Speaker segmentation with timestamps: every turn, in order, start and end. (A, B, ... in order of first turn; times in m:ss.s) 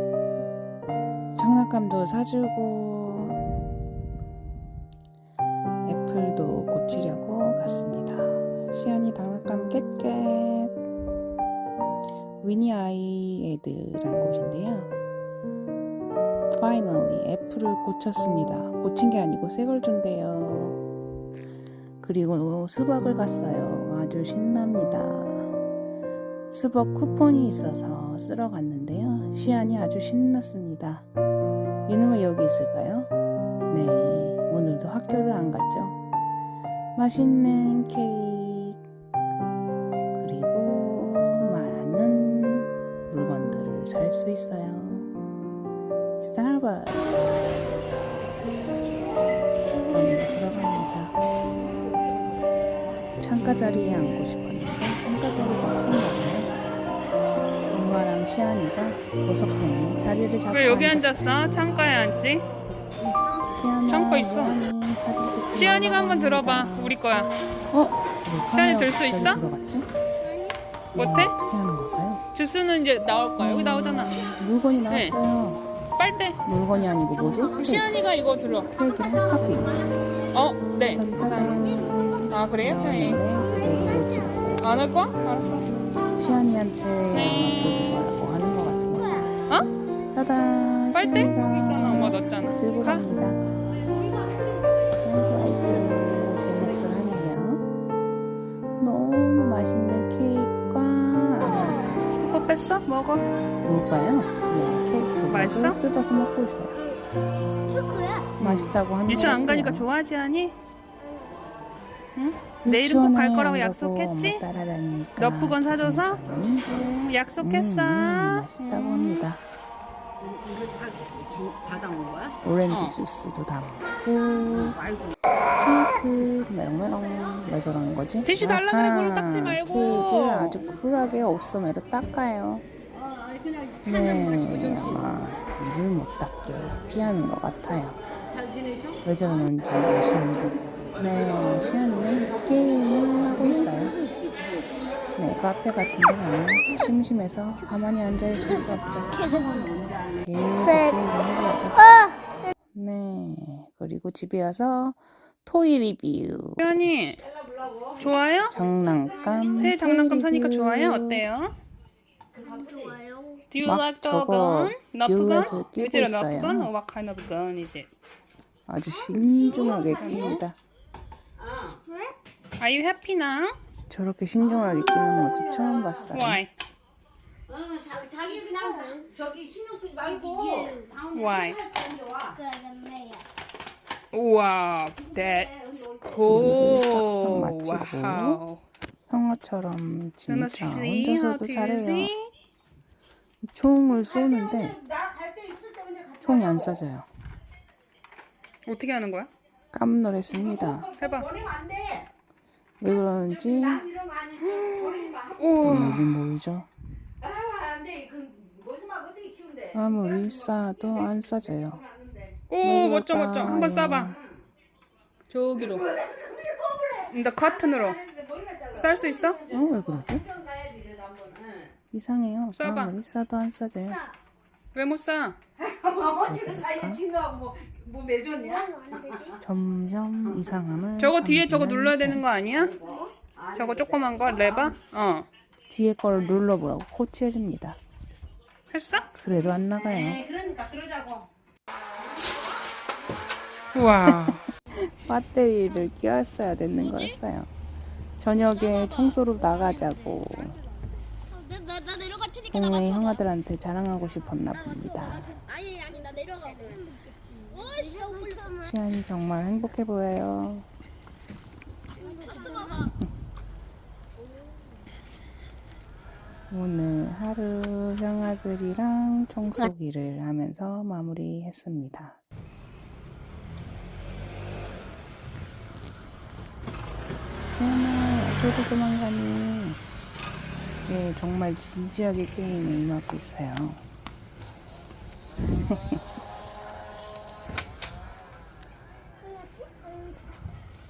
0:01.3-0:03.4 A
0:05.8-0:10.7 A
0:12.4-0:14.9 A
0:16.5-0:20.8 A
0:22.0-0:25.5 A
0:26.5-0:31.1 A
0:31.8-0:33.1 A
0:33.7-0:36.0 A
0:37.0-0:38.8 A
0:40.1-0:45.1 A
0:46.2-0:47.4 A
0:49.9-0:51.1 A
0:53.2-0:56.5 A
0:57.7-1:01.3 A
1:00.5-1:02.4 B
1:03.5-1:07.0 A
1:03.9-1:04.6 B
1:05.5-1:07.3 B
1:07.7-1:09.9 A
1:08.5-1:09.4 B
1:10.2-1:10.5 C
1:10.9-1:12.2 A
1:10.9-1:11.3 B
1:12.3-1:14.2 B
1:13.4-1:15.6 A
1:14.9-1:15.1 B
1:16.0-1:16.4 B
1:16.4-1:17.9 A
1:17.5-1:18.7 B
1:18.7-1:19.9 A
1:19.0-1:20.2 C
1:20.3-1:21.8 B
1:20.8-1:24.7 A
1:22.3-1:23.2 B
1:23.5-1:24.1 C
1:24.6-1:25.7 B
1:26.2-1:29.3 A
1:27.1-1:28.0 B
1:30.1-1:33.5 A
1:30.9-1:33.0 B
1:35.0-1:37.6 A
1:38.8-1:42.0 A
1:42.2-1:43.2 B
1:43.6-1:46.8 A
1:45.3-1:45.8 B
1:47.7-1:48.3 C
1:48.4-1:49.9 A
1:48.4-1:50.6 B
1:52.2-1:54.4 B
1:52.6-1:56.8 A
1:55.2-1:59.3 B
1:57.4-1:59.4 A
2:00.2-2:02.3 D
2:02.4-2:04.8 A
2:02.7-2:03.0 B
2:05.6-2:12.6 A
2:08.2-2:10.6 B
2:13.0-2:13.9 D
2:13.8-2:18.0 A
2:18.4-2:18.8 D
2:19.0-2:24.1 A
2:25.1-2:29.4 A
2:29.2-2:30.0 D
2:30.2-2:32.0 A
2:32.7-2:36.7 A
2:36.6-2:37.2 B
2:37.3-2:39.4 D
2:38.0-2:38.5 B
2:38.5-2:41.2 A
2:39.4-2:41.6 B
2:42.4-2:43.0 D
2:42.4-2:43.4 C
2:43.5-2:47.9 B
2:43.6-2:46.7 A
2:48.7-2:50.6 A
2:49.5-2:50.4 B
2:51.4-2:51.8 D
2:51.8-2:52.1 C
2:52.6-2:53.6 B
2:53.9-2:56.4 A
2:54.6-2:56.0 D
2:56.1-2:56.5 B
2:57.5-3:02.4 D
2:58.6-2:59.0 C
3:00.3-3:00.8 C
3:01.1-3:01.6 B
3:02.4-3:03.2 C
3:04.1-3:08.6 B
3:05.1-3:06.5 D
3:06.2-3:08.4 A
3:09.1-3:12.1 A
3:10.3-3:12.3 B
3:13.4-3:14.8 A
3:14.0-3:16.8 D
3:16.2-3:17.1 A
3:18.6-3:19.3 B
3:19.7-3:20.9 A
3:20.3-3:22.1 D
3:21.0-3:21.3 B
3:22.8-3:23.9 A
3:23.3-3:25.6 D
3:24.6-3:26.2 B
3:25.6-3:26.7 A
3:27.2-3:32.4 D
3:29.7-3:31.8 A
3:32.5-3:34.2 B
3:32.6-3:34.1 A
3:35.3-3:35.9 B
3:35.6-3:41.7 D
3:37.1-3:38.0 B
3:38.8-3:39.4 B
3:39.5-3:40.2 A
3:41.9-3:44.1 A
3:42.5-3:43.0 B
3:44.7-3:45.4 B
3:45.6-3:49.3 D
3:46.2-3:47.0 A
3:48.4-3:49.4 C
3:49.4-3:52.2 A
3:51.0-3:52.7 B
3:52.5-3:54.7 D
3:53.5-3:55.3 B
3:55.7-3:57.8 A
3:58.7-3:59.1 B
3:59.2-4:00.2 A
3:59.7-4:01.3 D
4:03.7-4:04.4 B
4:04.9-4:07.5 A
4:06.8-4:07.2 B
4:08.2-4:10.6 A
4:11.4-4:12.5 C
4:12.5-4:15.4 A
4:15.4-4:18.6 C
4:18.6-4:20.7 A
4:22.0-4:22.9 C
4:26.5-4:32.2 A
4:37.6-4:39.8 A
4:40.8-4:43.8 A
4:45.6-4:46.0 A